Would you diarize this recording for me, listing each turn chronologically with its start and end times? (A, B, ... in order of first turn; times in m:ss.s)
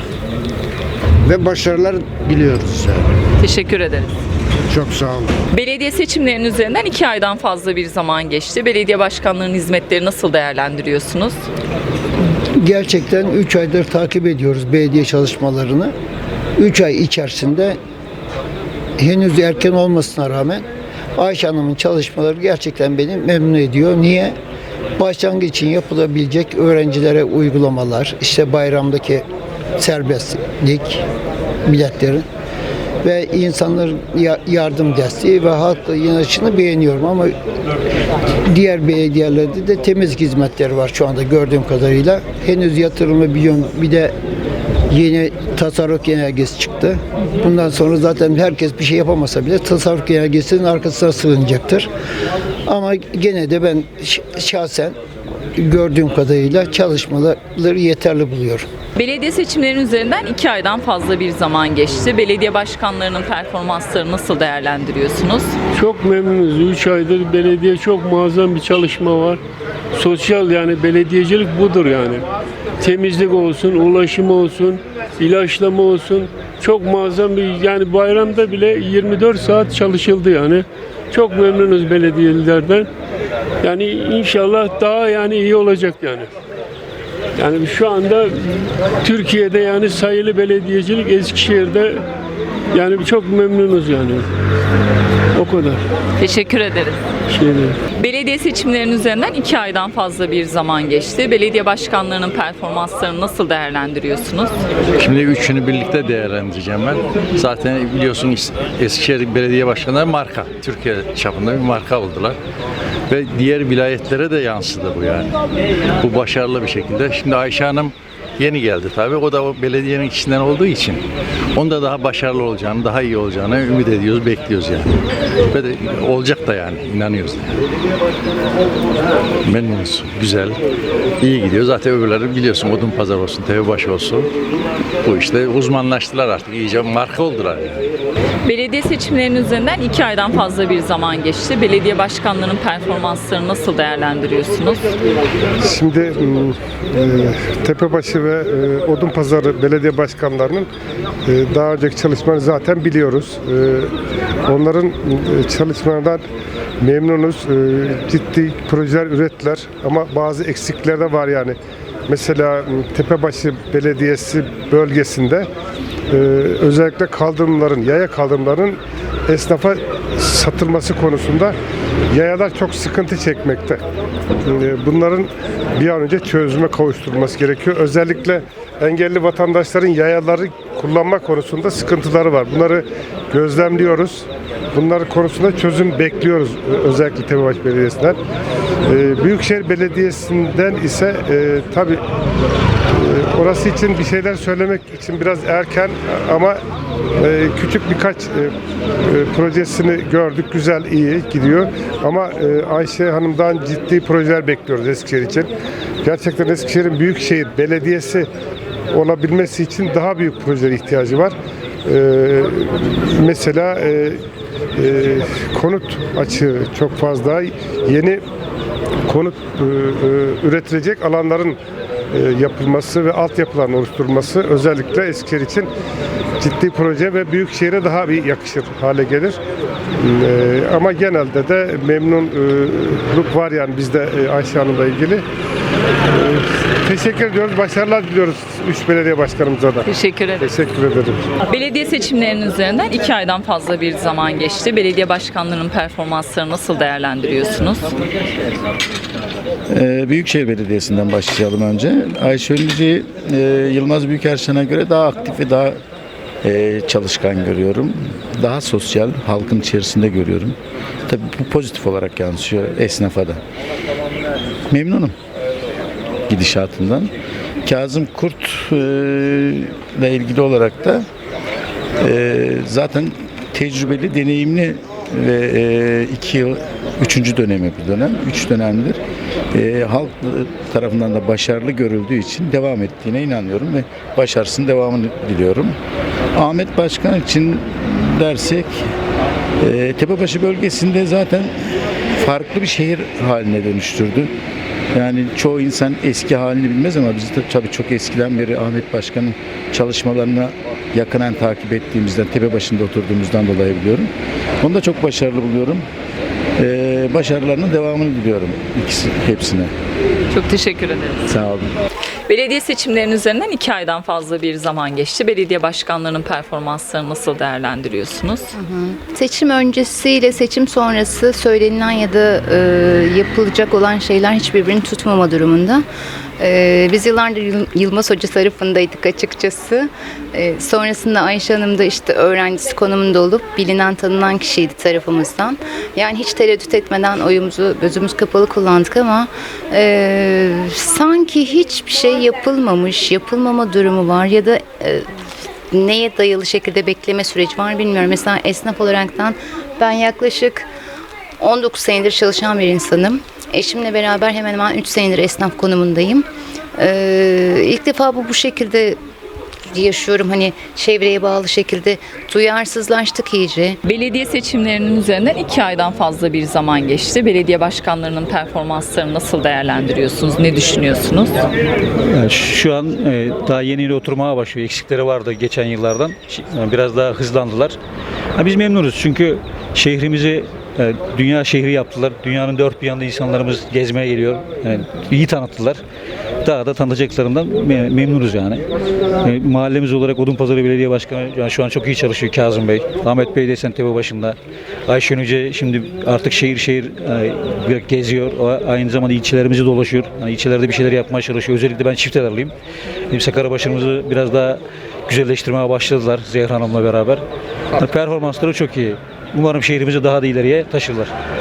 0:01.2-0:03.1 A
0:03.4-0:04.1 B
0:04.7-0:05.3 A
0:05.5-0:11.4 B
0:12.6-0:15.9 C
0:16.6-0:17.8 C
0:19.0-0:20.6 C
0:21.2-0:24.3 C
0:25.0-0:29.2 C
0:29.8-0:31.0 C
0:31.6-0:32.2 C
0:33.0-0:37.3 C
0:38.5-0:44.1 C
0:44.9-0:51.9 C
0:52.6-0:54.9 C
0:55.6-0:58.6 C
0:59.0-1:05.5 B
1:05.7-1:09.4 D
1:09.9-1:12.2 D
1:12.8-1:22.9 D
1:23.6-1:26.3 D
1:27.4-1:28.4 D
1:29.0-1:32.0 D
1:32.7-1:34.2 D
1:35.3-1:35.8 D
1:36.2-1:37.0 B
1:37.3-1:37.8 D
1:38.0-1:44.5 B
1:45.0-1:52.4 E
1:53.1-1:55.3 E
1:56.0-2:01.0 E
2:01.5-2:04.9 E
2:05.5-2:07.6 E
2:09.4-2:10.6 E
2:11.2-2:14.3 E
2:15.0-2:17.8 E
2:18.4-2:24.9 B
2:25.6-2:30.7 F
2:31.3-2:33.9 F
2:34.5-2:36.2 F
2:36.8-2:41.6 F
2:42.1-2:45.5 F
2:46.1-2:51.5 F
2:52.1-2:53.8 F
2:54.4-3:08.2 F
3:08.9-3:12.0 F
3:12.9-3:16.6 F
3:17.2-3:18.5 F
3:19.1-3:25.5 F
3:26.0-3:28.3 F
3:28.9-3:34.2 F
3:34.8-3:38.2 F
3:39.1-3:41.6 F
3:42.1-3:45.7 F
3:46.4-3:49.4 F
3:50.0-3:55.2 F
3:56.1-3:59.8 F
3:59.8-4:00.5 B
4:00.4-4:01.2 F
4:01.5-4:07.9 B
4:09.7-4:15.8 G
4:16.4-4:23.4 G
4:24.7-4:25.1 G
4:26.3-4:27.1 G
4:27.6-4:31.0 G
4:32.0-4:45.8 G
4:46.3-4:48.8 G
4:49.6-4:51.5 G
4:52.1-4:54.3 G
4:54.9-5:05.8 G
5:06.6-5:09.7 G
5:10.3-5:11.3 B
5:11.3-5:11.7 G
5:12.3-5:18.5 B
5:18.5-5:25.8 H
5:26.4-5:45.0 H
5:45.7-5:50.7 H
5:51.4-5:56.2 H
5:56.8-5:59.0 H
5:59.7-6:03.8 H
6:03.8-6:11.3 B
6:12.0-6:17.8 I
6:18.4-6:25.8 I
6:26.4-6:28.6 I
6:29.2-6:34.4 I
6:34.9-6:42.5 I
6:43.1-6:47.2 I
6:47.8-6:51.1 I